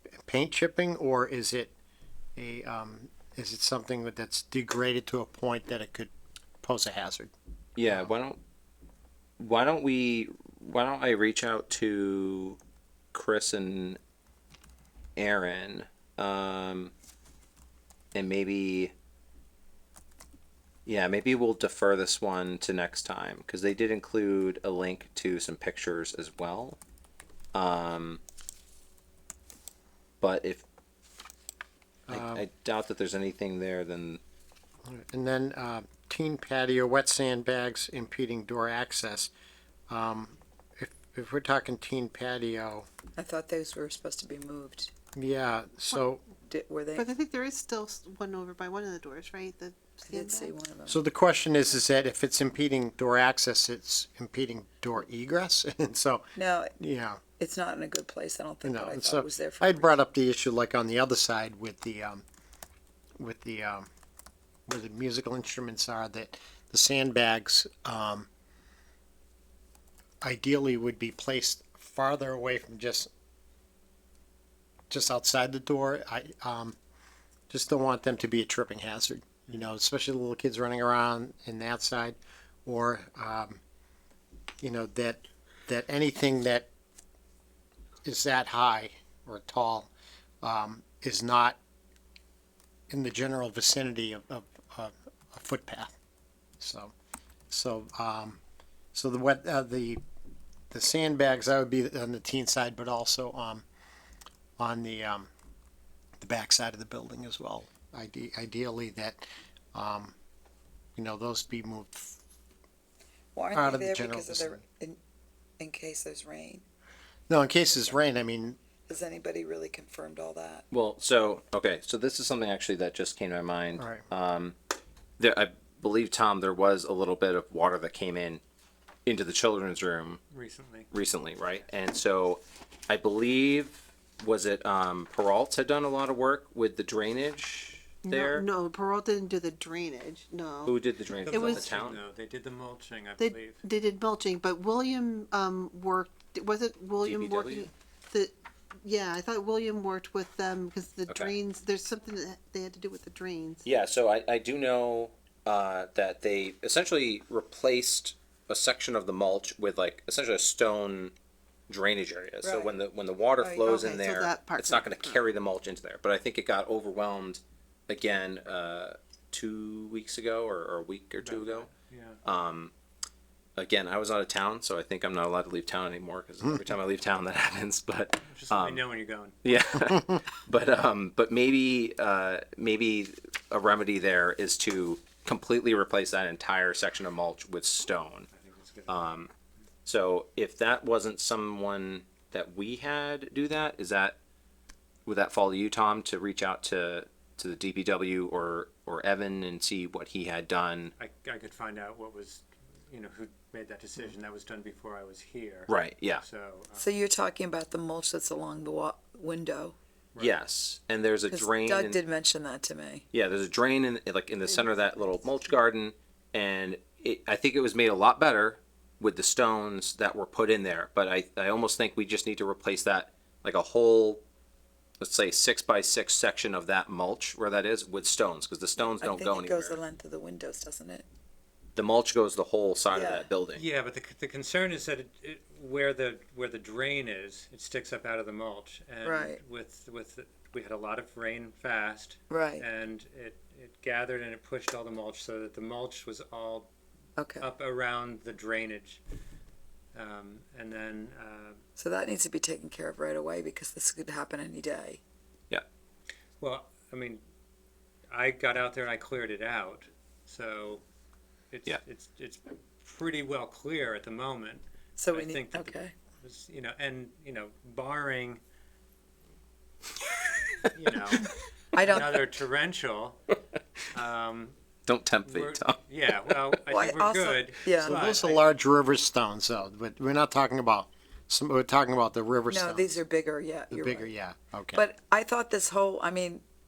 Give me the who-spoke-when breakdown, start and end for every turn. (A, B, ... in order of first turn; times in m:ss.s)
0:00.2-0:01.7 A
0:02.4-0:07.3 A
0:07.8-0:08.4 B
0:07.8-0:08.1 A
0:09.4-0:12.6 B
0:13.1-0:14.0 B
0:15.2-0:16.9 B
0:18.1-0:18.9 B
0:20.8-0:26.8 B
0:27.5-0:28.2 B
0:30.2-0:30.6 B
0:32.1-0:32.4 A
0:32.1-0:34.2 B
0:34.8-0:39.3 A
0:39.9-0:42.9 A
0:43.2-0:44.9 C
0:45.1-0:46.2 A
0:46.5-0:47.1 C
0:46.9-0:50.5 D
0:50.0-0:51.0 C
0:50.9-0:56.2 A
0:56.3-0:56.8 C
0:56.8-0:57.2 A
0:57.4-1:00.0 C
0:58.6-1:02.2 A
1:03.2-1:03.9 A
1:04.7-1:08.3 A
1:10.2-1:13.1 A
1:14.9-1:16.8 A
1:17.5-1:23.6 A
1:24.6-1:26.7 A
1:28.0-1:29.9 A
1:30.4-1:31.6 A
1:32.9-1:35.9 A
1:36.6-1:36.9 A
1:37.5-1:38.4 A
1:38.9-1:40.0 A
1:40.7-1:43.6 A
1:44.6-1:45.3 A
1:46.2-1:50.1 A
1:51.0-1:52.2 A
1:53.3-1:55.0 C
1:53.5-1:54.6 A
1:55.6-1:56.6 C
1:57.3-1:58.6 A
1:58.9-2:00.6 C
2:00.7-2:04.6 B
2:03.8-2:04.1 A
2:05.2-2:08.4 B
2:09.0-2:10.2 B
2:10.3-2:10.9 E
2:10.9-2:18.4 B
2:18.0-2:20.8 D
2:20.6-2:22.0 B
2:21.2-2:23.6 E
2:21.3-2:21.7 D
2:23.2-2:33.6 D
2:27.0-2:27.7 B
2:31.1-2:31.3 B
2:33.6-2:41.1 B
2:41.7-2:51.7 B
2:42.4-2:42.8 C
2:43.4-2:43.8 C
2:43.6-2:45.2 D
2:51.2-2:52.2 E
2:52.2-2:52.7 B
2:53.6-2:58.8 B
2:58.2-2:59.4 E
2:59.4-3:08.3 B
2:59.9-3:00.2 A
3:08.3-3:09.2 E
3:08.9-3:09.3 B
3:09.8-3:14.2 B
3:15.0-3:20.9 B
3:21.0-3:26.9 E
3:25.7-3:26.2 B
3:26.8-3:29.8 C
3:30.2-3:32.0 B
3:31.3-3:33.0 C
3:33.1-3:44.2 B
3:34.4-3:35.5 C
3:45.0-3:49.8 B
3:49.0-3:51.0 C
3:51.7-3:53.6 B
3:52.9-3:53.3 C
3:53.5-4:06.7 E
3:59.0-3:59.4 C
4:02.3-4:02.6 C
4:07.2-4:07.5 C
4:07.4-4:09.0 E
4:09.9-4:11.6 E
4:11.8-4:15.0 C
4:16.4-4:17.2 E
4:18.1-4:20.8 E
4:21.5-4:28.4 E
4:25.0-4:25.9 C
4:30.7-4:33.3 E
4:31.7-4:32.2 C
4:33.9-4:34.6 E
4:34.8-4:36.4 B
4:35.2-4:38.4 E
4:36.7-4:38.0 C
4:37.8-4:43.0 A
4:42.5-4:44.1 C
4:43.7-4:44.8 A
4:44.7-4:46.4 C